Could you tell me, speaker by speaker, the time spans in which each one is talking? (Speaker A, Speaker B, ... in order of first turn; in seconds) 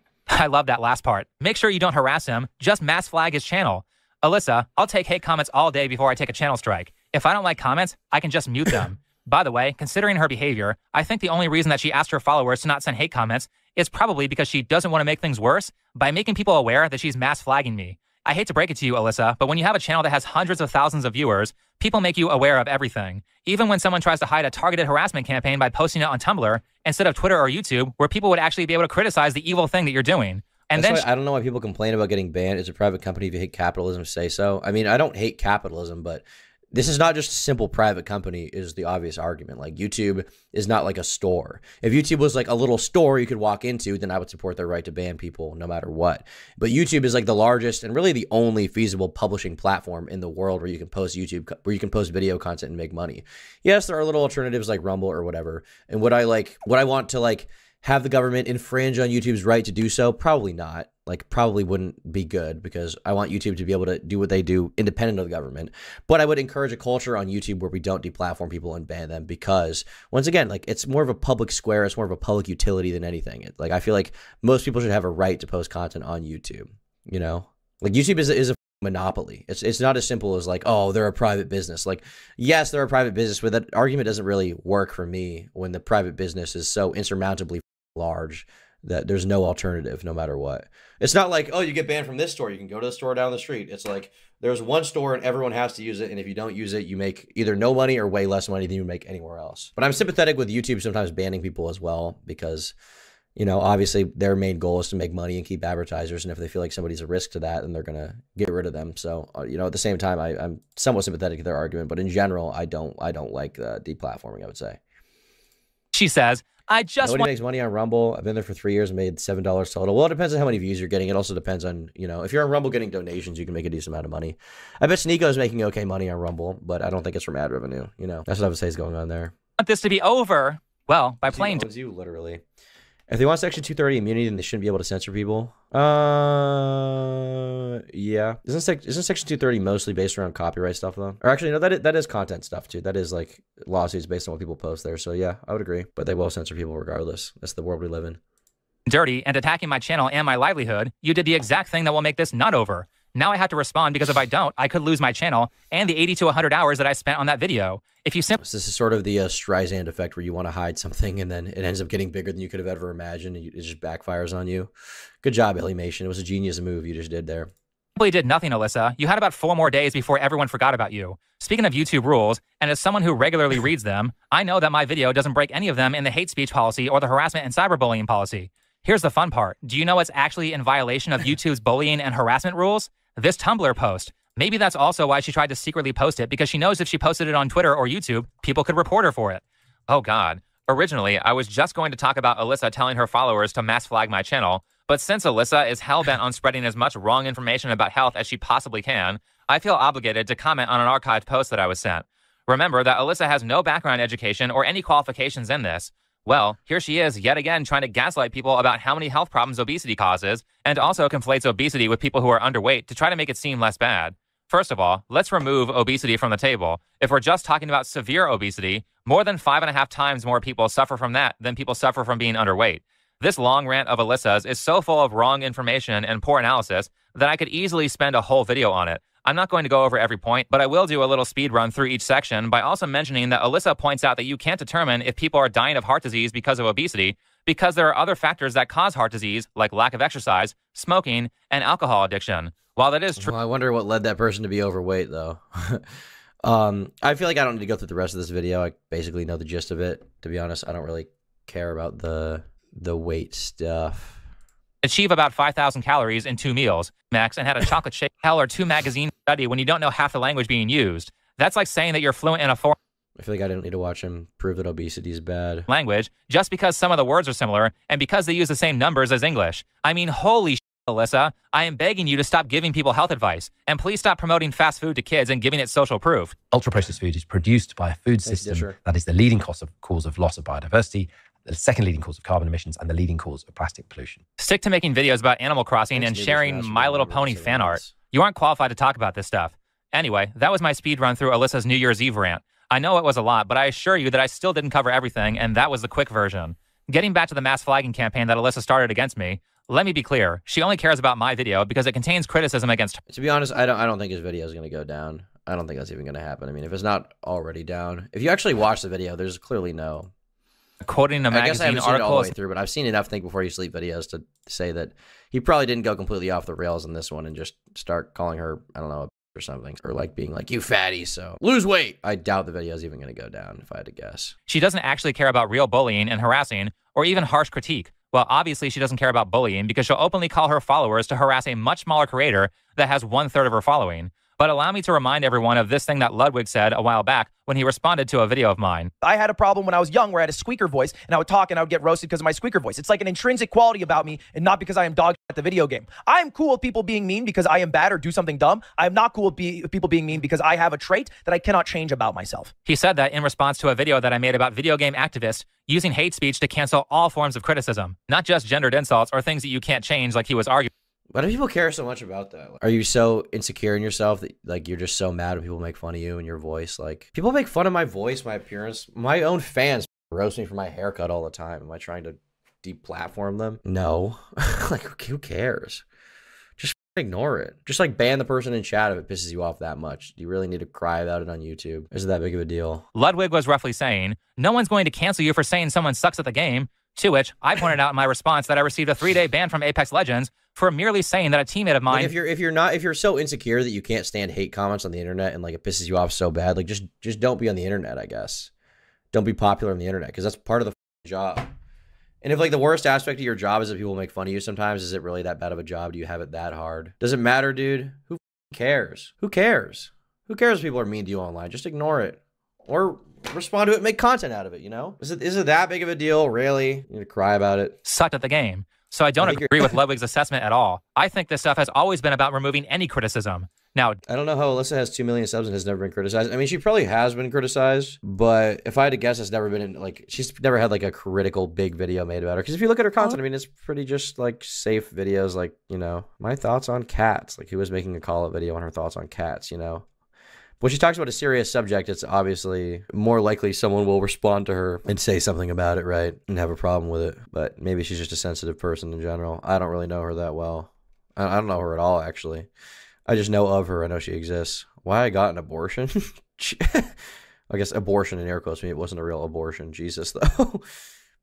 Speaker A: 0.3-31.0, 115.9-117.3, 129.6-131.7, 148.8-158.4, 167.9-243.3, 254.8-262.8, 265.7-276.4, 284.4-303.0, 310.8-312.3, 324.5-338.9, 352.7-360.7, 382.9-392.1, 417.9-424.0
Speaker B: 30.7-102.7, 103.3-114.8, 117.0-129.3, 131.3-132.4, 133.1-148.2, 158.4-164.7, 165.2-167.5, 243.2-245.8, 246.4-254.2, 263.2-265.7, 278.2-278.8, 285.9-287.9, 303.1-310.1, 311.3-324.3, 361.1-375.8, 376.6-382.8, 391.9-398.5, 399.1-401.5, 402.2-417.8, 419.2-419.8, 424.1-439.8, 440.6-452.5, 453.1-456.9, 457.5-460.6
Speaker C: 276.5-284.2
Speaker D: 339.0-352.5